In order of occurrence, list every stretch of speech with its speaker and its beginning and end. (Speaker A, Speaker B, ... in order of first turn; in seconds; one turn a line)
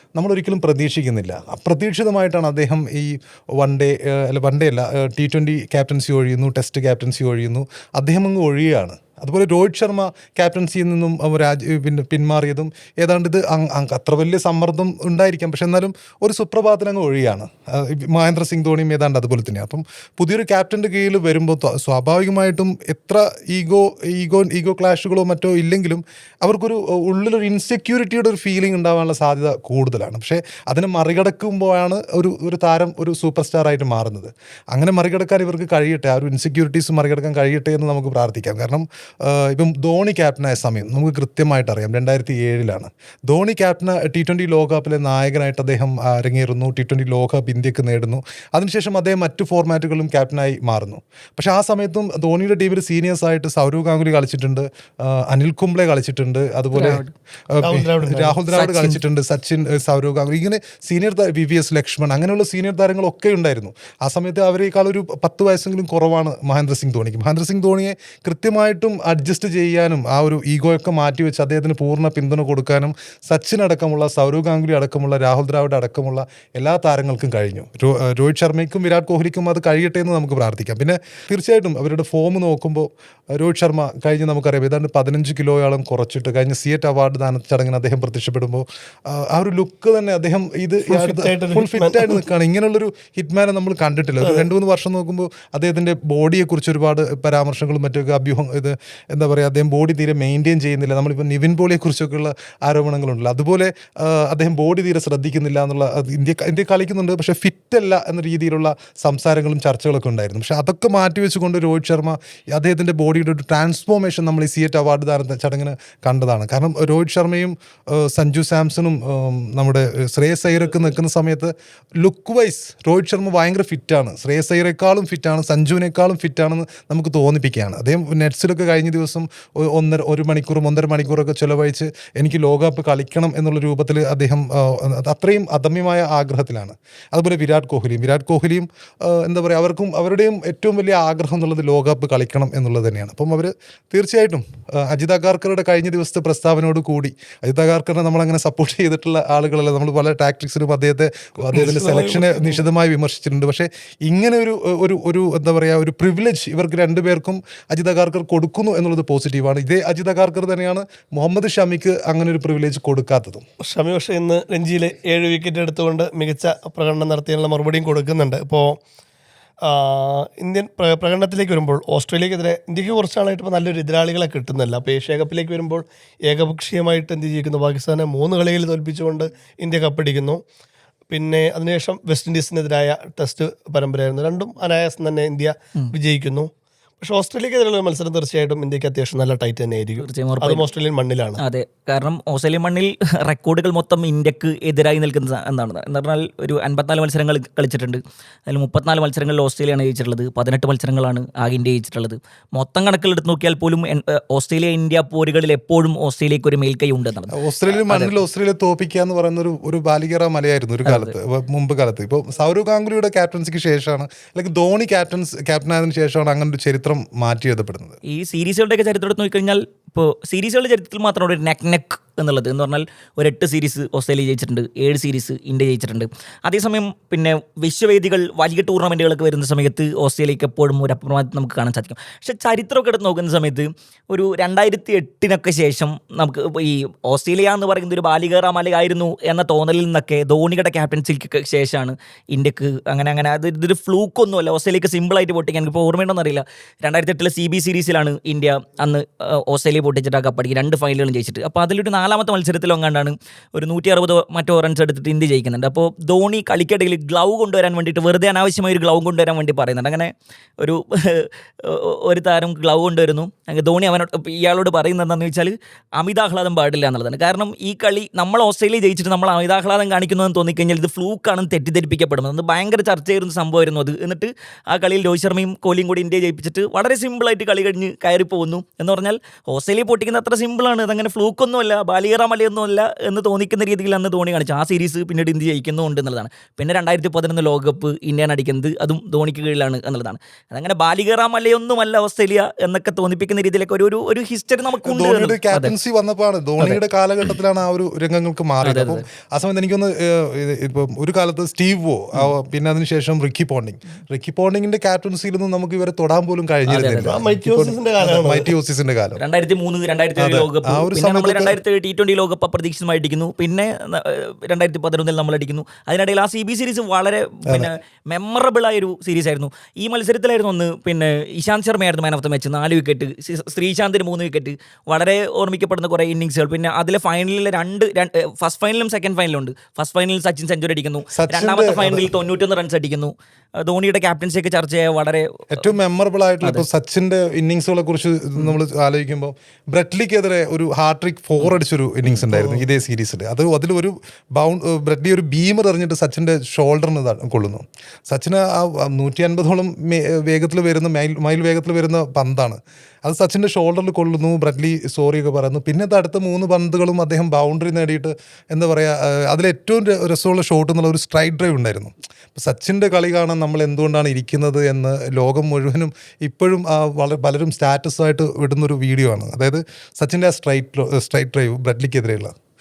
Speaker A: 0.1-163.4
Speaker B: 56.7-57.1
Speaker C: 57.6-58.4
Speaker B: 58.5-59.0
Speaker C: 90.9-92.2
Speaker C: 94.2-94.5
Speaker C: 151.5-152.6
Speaker C: 163.6-168.8
Speaker C: 169.7-180.4
Speaker C: 181.1-186.5
Speaker C: 187.0-191.4
Speaker B: 190.0-190.6
Speaker B: 191.4-208.2
Speaker A: 207.3-217.9
Speaker B: 210.8-211.1
Speaker B: 218.1-295.7
Speaker A: 294.8-309.2
Speaker B: 296.6-297.4
Speaker B: 298.6-299.0
Speaker B: 306.7-307.2
Speaker C: 307.1-308.5
Speaker B: 309.2-335.4
Speaker A: 310.2-311.6
Speaker A: 331.1-332.1
Speaker A: 335.5-372.3
Speaker B: 342.0-342.7